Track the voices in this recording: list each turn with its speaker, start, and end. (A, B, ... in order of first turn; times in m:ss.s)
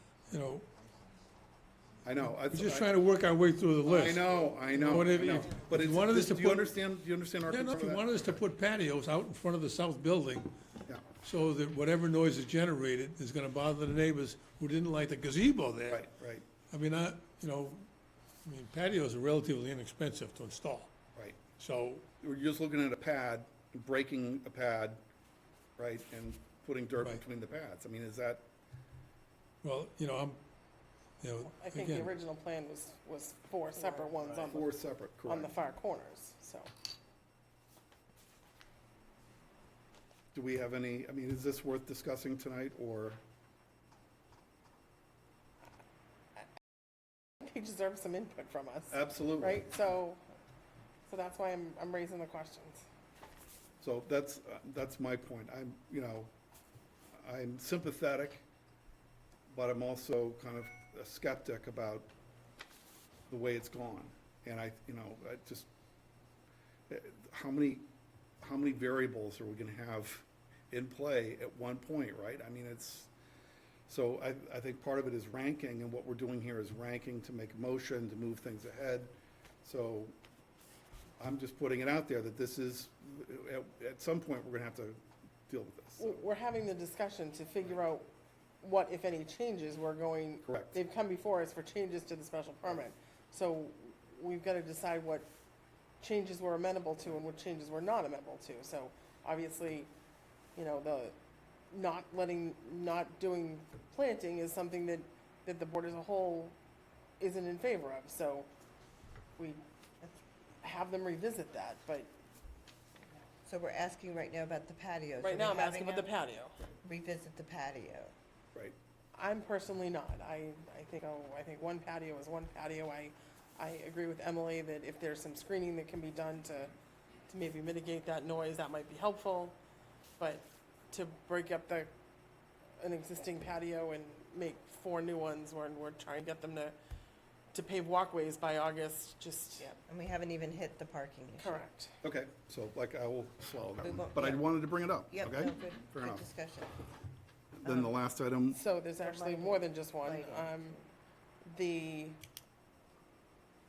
0:00.3-0:00.7 A
0:02.0-0:02.9 B
0:02.4-0:06.7 A
0:03.8-0:08.4 B
0:07.5-0:10.5 A
0:11.2-0:16.0 A
0:15.9-0:16.4 B
0:16.7-0:17.8 A
0:18.4-0:20.9 A
0:21.6-0:22.1 A
0:22.2-0:25.0 B
0:25.8-0:28.5 B
0:29.6-0:30.4 A
0:31.2-0:32.1 A
0:31.5-0:34.7 C
0:33.8-0:34.0 D
0:34.4-0:35.5 B
0:35.3-0:36.7 C
0:40.3-0:43.2 B
0:47.4-0:50.2 C
0:48.9-0:49.6 B
0:51.1-0:52.8 C
0:53.8-0:56.3 B
0:57.2-0:58.4 B
0:59.5-1:02.1 B
1:03.3-1:05.7 B
1:06.9-1:07.8 B
1:08.4-1:13.1 B
1:13.9-1:20.1 B
1:21.2-1:26.2 B
1:26.0-1:28.1 C
1:28.6-1:35.3 C
1:30.4-1:30.8 B
1:36.0-1:39.9 C
1:40.5-1:41.2 C
1:41.7-1:46.6 C
1:47.2-1:48.5 C
1:50.6-1:52.1 C
1:53.4-1:56.1 D
1:55.2-1:56.6 C
1:56.8-1:58.1 D
1:59.1-2:06.7 C
2:07.3-2:09.6 C
2:10.2-2:11.9 C
2:12.8-2:16.8 C
2:17.5-2:19.7 C
2:19.8-2:21.6 D
2:21.4-2:22.0 C
2:22.0-2:26.3 B
2:23.8-2:24.4 D
2:25.1-2:26.8 D
2:27.6-2:28.6 B
2:27.6-2:28.0 D
2:28.5-2:30.8 C
2:29.0-2:30.8 D
2:31.5-2:32.2 C